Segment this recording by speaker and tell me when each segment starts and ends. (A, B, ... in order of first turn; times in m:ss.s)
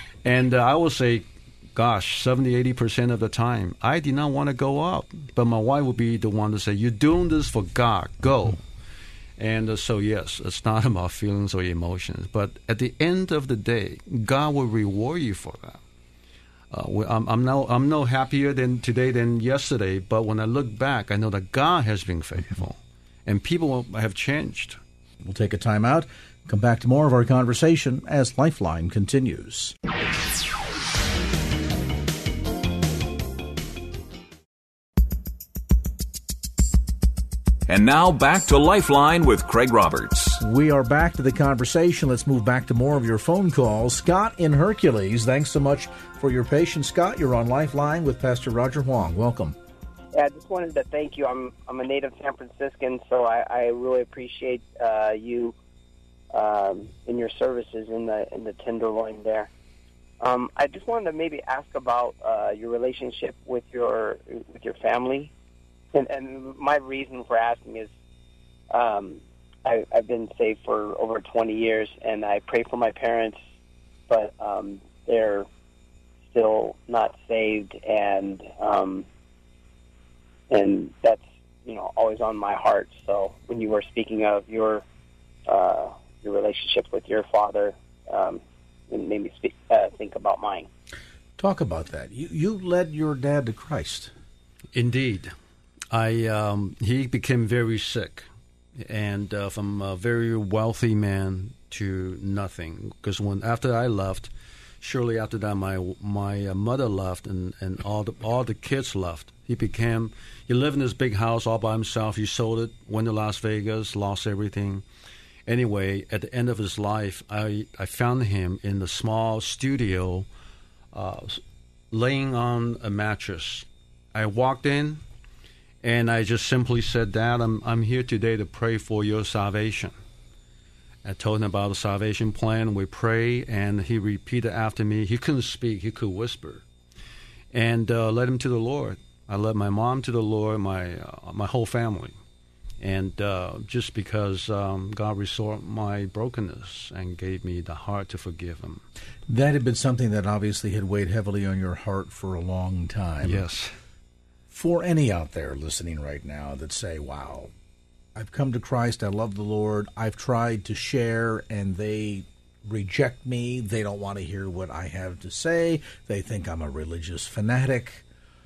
0:00.2-0:08.6 A
0:09.4-0:15.8 A
0:16.7-0:24.8 A
0:25.2-0:29.7 B
0:37.7-0:40.4 C
0:40.4-0:49.6 B
0:50.1-0:55.5 D
0:56.3-0:59.5 D
1:00.2-1:05.3 D
1:05.9-1:07.9 D
1:08.7-1:13.4 D
1:14.1-1:15.5 D
1:16.3-1:19.0 D
1:20.5-1:24.8 D
1:25.5-1:30.7 D
1:31.4-1:34.1 B
1:34.7-1:35.3 A
1:35.9-1:38.3 A
1:38.8-1:54.8 A
1:55.5-2:00.3 A
2:00.9-2:05.0 A
2:05.8-2:09.9 A
2:11.0-2:16.6 A
2:17.5-2:22.1 A
2:22.8-2:28.8 A
2:29.3-2:33.4 B
2:33.2-2:33.8 A
2:34.5-2:37.5 B
2:38.1-2:48.0 B